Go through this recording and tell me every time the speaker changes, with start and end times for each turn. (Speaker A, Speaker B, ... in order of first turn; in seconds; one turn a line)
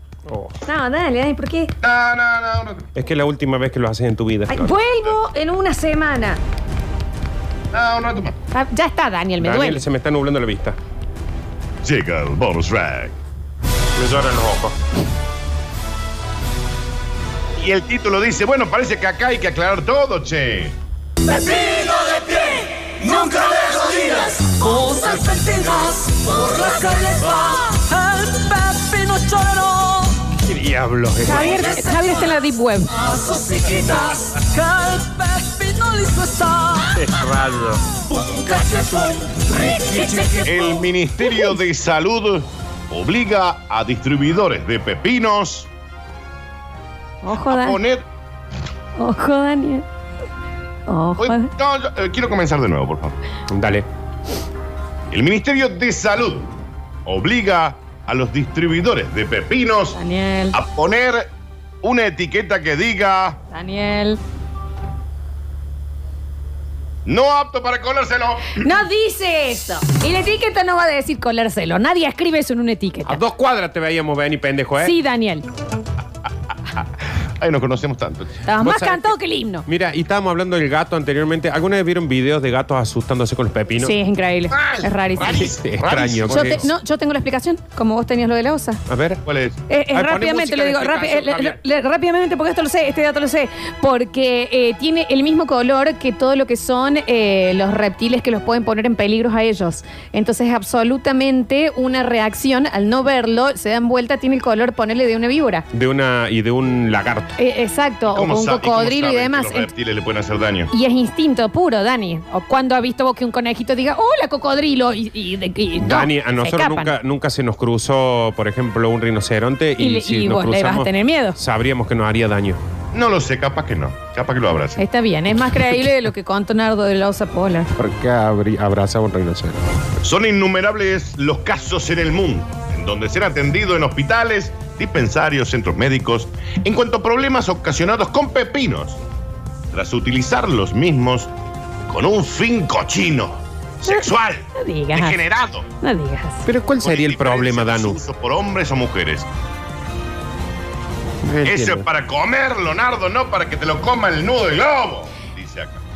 Speaker A: 0.3-0.6
Speaker B: 0.7-1.7
Speaker C: 1.8-2.9
Speaker A: 3.0-4.7
Speaker B: 4.5-6.4
Speaker C: 4.6-5.2
Speaker C: 7.7-8.4
Speaker B: 8.5-9.9
Speaker A: 9.4-10.8
Speaker C: 11.8-13.2
Speaker A: 14.0-14.8
Speaker C: 17.6-20.8
Speaker D: 23.0-28.8
Speaker B: 23.3-23.6
Speaker B: 24.2-25.1
Speaker B: 28.7-30.0
Speaker A: 30.4-31.7
Speaker B: 31.2-33.1
Speaker D: 33.2-36.0
Speaker B: 35.8-36.8
Speaker A: 37.0-37.8
Speaker D: 38.3-40.4
Speaker B: 39.6-40.4
Speaker C: 40.4-45.7
Speaker B: 47.2-47.8
Speaker C: 47.4-48.0
Speaker B: 49.0-49.9
Speaker B: 50.9-51.5
Speaker C: 51.2-53.1
Speaker A: 53.5-53.9
Speaker C: 55.1-56.5
Speaker C: 57.1-60.0
Speaker B: 59.9-60.6
Speaker C: 60.5-61.3
Speaker C: 61.8-63.4
Speaker B: 63.5-64.2
Speaker C: 67.1-68.6
Speaker B: 68.6-73.2
Speaker A: 73.0-75.0
Speaker B: 74.8-75.5
Speaker C: 76.7-78.4
Speaker B: 78.5-79.7
Speaker A: 78.6-83.9
Speaker B: 83.8-85.5
Speaker C: 84.5-86.7
Speaker A: 85.2-86.7
Speaker B: 86.3-88.8
Speaker A: 88.9-89.2
Speaker C: 89.2-89.6
Speaker B: 89.7-105.7
Speaker A: 89.9-91.6
Speaker A: 105.7-107.3
Speaker B: 107.4-109.7
Speaker C: 108.1-110.7
Speaker B: 110.7-117.0
Speaker A: 115.8-122.6
Speaker B: 119.8-121.4
Speaker C: 122.9-124.8
Speaker B: 124.8-127.7
Speaker A: 127.8-129.6
Speaker C: 130.0-139.0
Speaker C: 139.7-141.3
Speaker C: 141.9-145.7
Speaker B: 143.9-145.2
Speaker B: 145.8-146.5
Speaker A: 146.5-148.0
Speaker C: 146.8-149.3
Speaker A: 151.2-151.9
Speaker C: 151.4-155.8